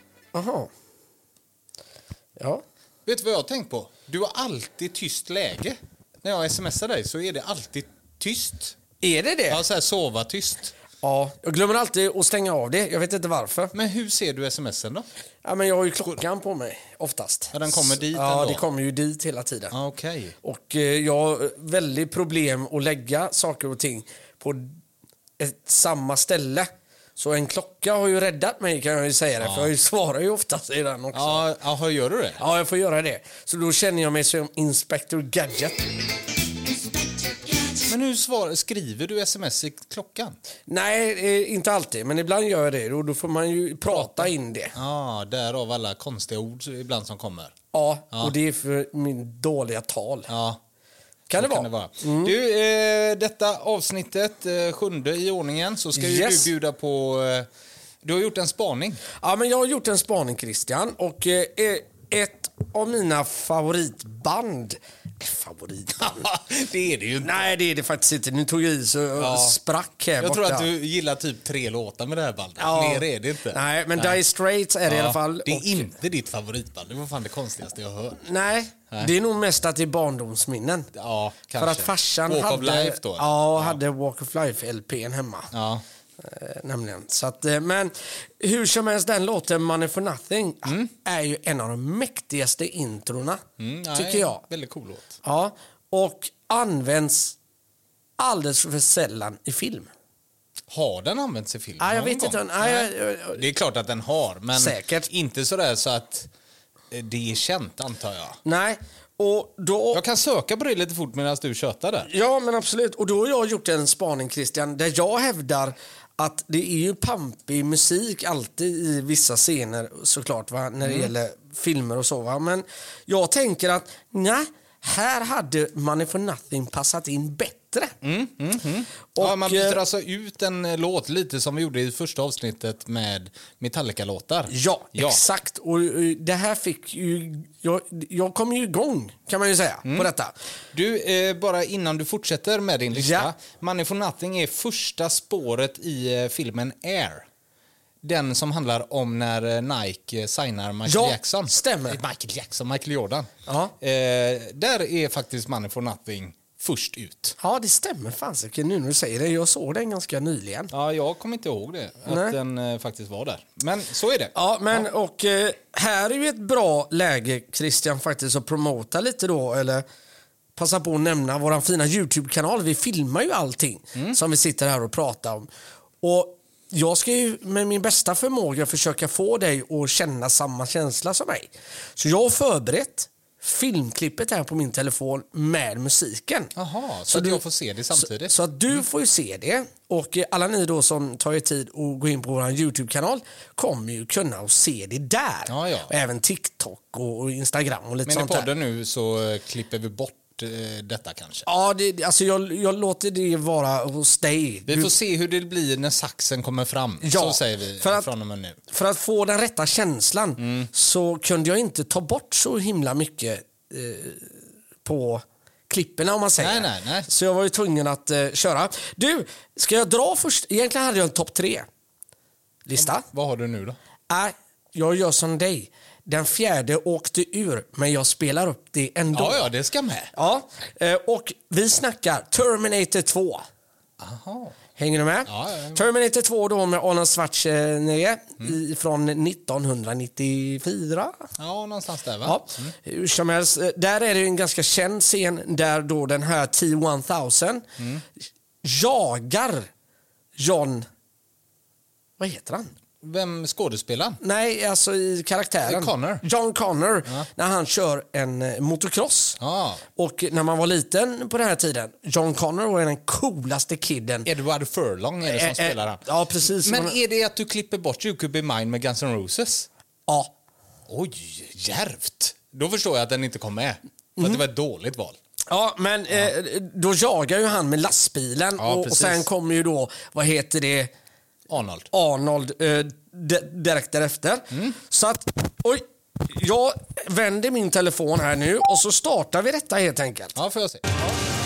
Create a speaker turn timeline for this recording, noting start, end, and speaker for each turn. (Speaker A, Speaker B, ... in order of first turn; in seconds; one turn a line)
Speaker A: 0.3-0.7
Speaker A: 2.4-2.6
Speaker B: 3.1-8.8
Speaker A: 9.0-9.6
Speaker B: 9.5-10.8
Speaker A: 11.0-13.7
Speaker B: 13.7-15.1
Speaker A: 15.4-19.7
Speaker B: 17.5-18.6
Speaker B: 19.7-20.4
Speaker A: 20.4-24.8
Speaker A: 25.4-31.4
Speaker B: 29.4-29.7
Speaker B: 31.1-32.4
Speaker A: 32.4-35.9
Speaker B: 37.8-40.4
Speaker A: 40.7-44.8
Speaker B: 43.9-47.6
Speaker A: 47.7-50.3
Speaker B: 50.3-50.6
Speaker A: 51.3-52.3
Speaker B: 51.3-57.5
Speaker A: 56.0-56.5
Speaker B: 58.0-59.0
Speaker A: 59.2-66.3
Speaker B: 66.0-67.5
Speaker A: 67.2-70.7
Speaker B: 69.2-69.6
Speaker B: 70.2-74.2
Speaker A: 72.6-75.9
Speaker B: 74.9-78.2
Speaker A: 78.2-80.9
Speaker B: 80.9-83.8
Speaker A: 81.6-85.5
Speaker B: 85.5-85.8
Speaker A: 86.2-94.4
Speaker B: 93.6-95.2
Speaker A: 95.2-97.4
Speaker A: 98.2-99.9
Speaker B: 100.7-106.3
Speaker A: 101.8-103.5
Speaker A: 104.6-105.1
Speaker B: 106.9-108.4
Speaker A: 108.5-110.0
Speaker B: 109.9-112.1
Speaker A: 112.0-127.9
Speaker B: 120.8-121.1
Speaker B: 128.0-135.2
Speaker A: 129.2-129.8
Speaker A: 134.5-140.3
Speaker B: 140.7-147.3
Speaker A: 142.9-143.3
Speaker B: 148.0-157.4
Speaker A: 150.9-152.0
Speaker A: 153.5-153.7
Speaker A: 157.4-160.7
Speaker B: 160.7-164.9
Speaker A: 162.1-162.3
Speaker A: 164.3-169.8
Speaker A: 170.6-175.5
Speaker A: 176.0-186.5
Speaker B: 186.6-188.3
Speaker A: 187.1-187.4
Speaker A: 188.0-198.5
Speaker B: 195.5-195.9
Speaker B: 198.1-201.5
Speaker A: 201.5-204.9
Speaker B: 204.7-208.6
Speaker A: 207.0-208.1
Speaker A: 208.7-221.7
Speaker B: 210.4-210.7
Speaker B: 216.4-217.1
Speaker A: 222.7-223.1
Speaker B: 222.8-223.8
Speaker A: 224.1-229.5
Speaker B: 229.1-230.1
Speaker A: 230.1-233.4
Speaker B: 234.0-234.6
Speaker A: 234.8-241.3
Speaker B: 235.3-235.8
Speaker B: 241.4-242.7
Speaker A: 242.2-247.7
Speaker B: 247.8-248.0
Speaker A: 248.6-249.7
Speaker A: 250.4-250.9
Speaker A: 252.2-252.7
Speaker B: 253.0-254.2
Speaker A: 254.2-259.4
Speaker B: 255.6-256.2
Speaker B: 259.4-259.8
Speaker A: 260.0-264.3
Speaker B: 264.3-269.7
Speaker A: 265.3-267.0
Speaker A: 270.1-270.3
Speaker B: 270.9-275.2
Speaker A: 275.5-280.9
Speaker B: 278.6-279.3
Speaker B: 281.5-281.9
Speaker A: 281.9-290.4
Speaker B: 290.4-290.8